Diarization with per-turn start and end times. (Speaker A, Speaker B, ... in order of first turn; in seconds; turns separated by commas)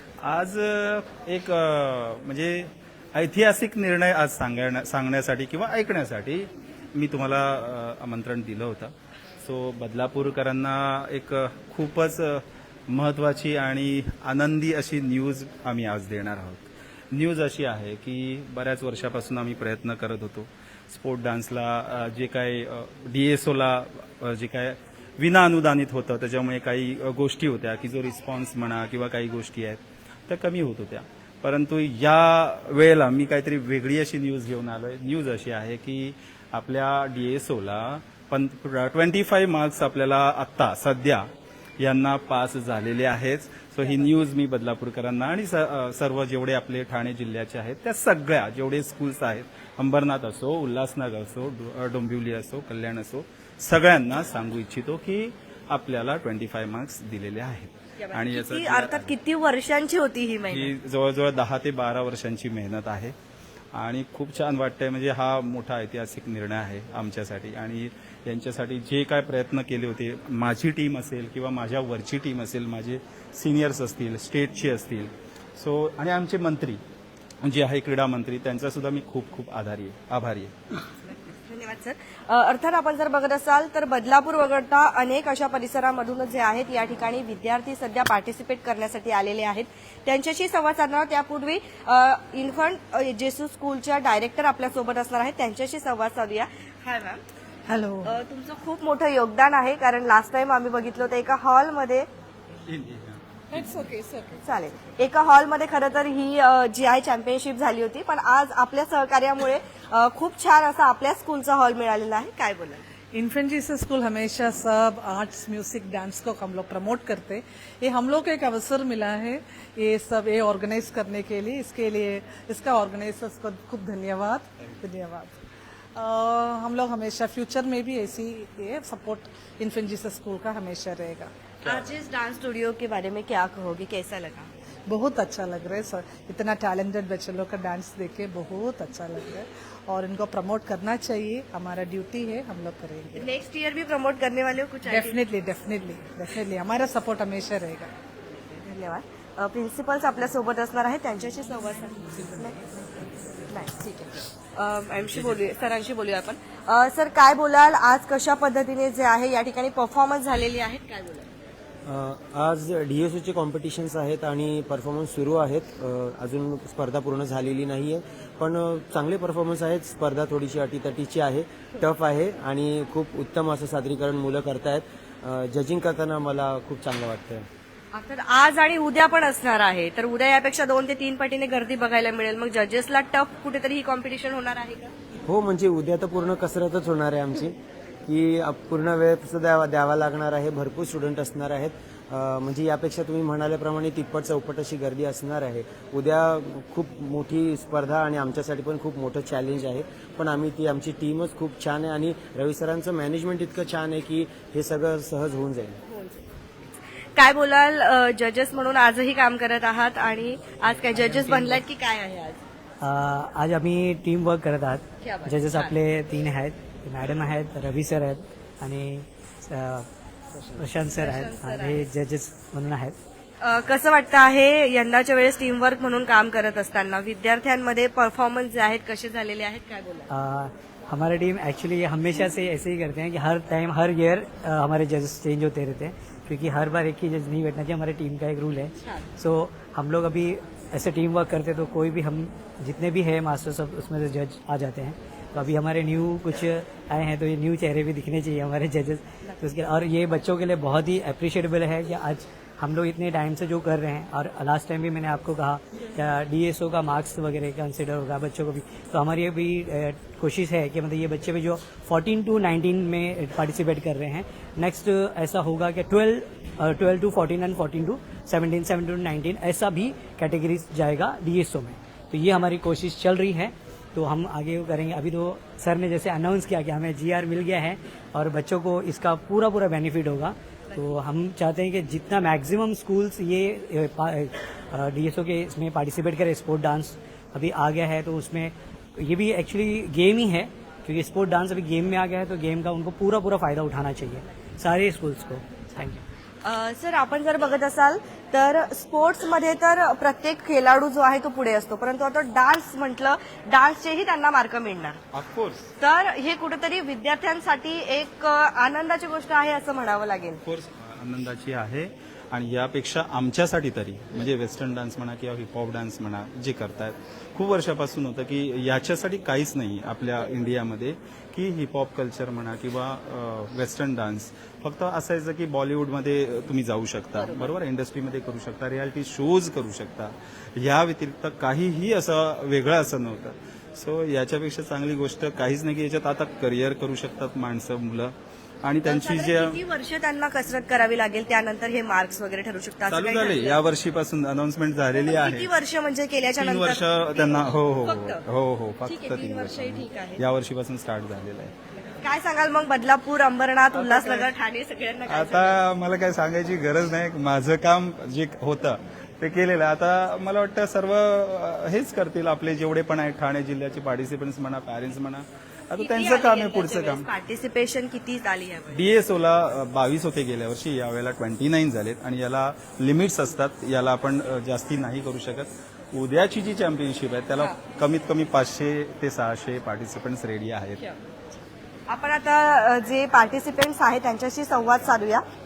Speaker A: 0.2-41.2, Speaker A: 41.8-59.1, Speaker B: 58.0-60.7, Speaker A: 60.5-63.1, Speaker A: 63.7-76.8, Speaker A: 77.4-80.5, Speaker B: 81.5-97.2, Speaker C: 97.7-98.1, Speaker B: 98.1-102.1, Speaker A: 102.7-103.2, Speaker C: 103.5-104.4, Speaker B: 104.5-112.8, Speaker C: 113.1-125.4, Speaker C: 126.0-131.3, Speaker B: 131.6-134.5, Speaker C: 134.9-143.2, Speaker B: 143.2-145.1, Speaker C: 144.8-147.9, Speaker B: 148.6-152.6, Speaker B: 153.5-161.3, Speaker D: 161.8-177.5, Speaker B: 177.9-184.9, Speaker D: 185.3-205.8, Speaker B: 207.2-212.4, Speaker E: 211.1-211.6, Speaker E: 212.8-219.9, Speaker B: 215.0-215.7, Speaker E: 220.5-222.9, Speaker B: 221.1-221.8, Speaker B: 223.4-230.1, Speaker E: 230.1-296.0, Speaker B: 296.4-305.0, Speaker A: 305.1-305.7, Speaker B: 305.8-310.4, Speaker A: 310.4-339.6, Speaker B: 338.9-343.6, Speaker A: 342.9-345.5, Speaker B: 344.9-348.2, Speaker A: 346.3-351.5, Speaker B: 348.8-350.2, Speaker B: 352.0-355.6, Speaker A: 353.7-354.4, Speaker A: 355.1-367.1, Speaker B: 365.8-368.8, Speaker A: 368.7-380.8, Speaker B: 381.9-385.2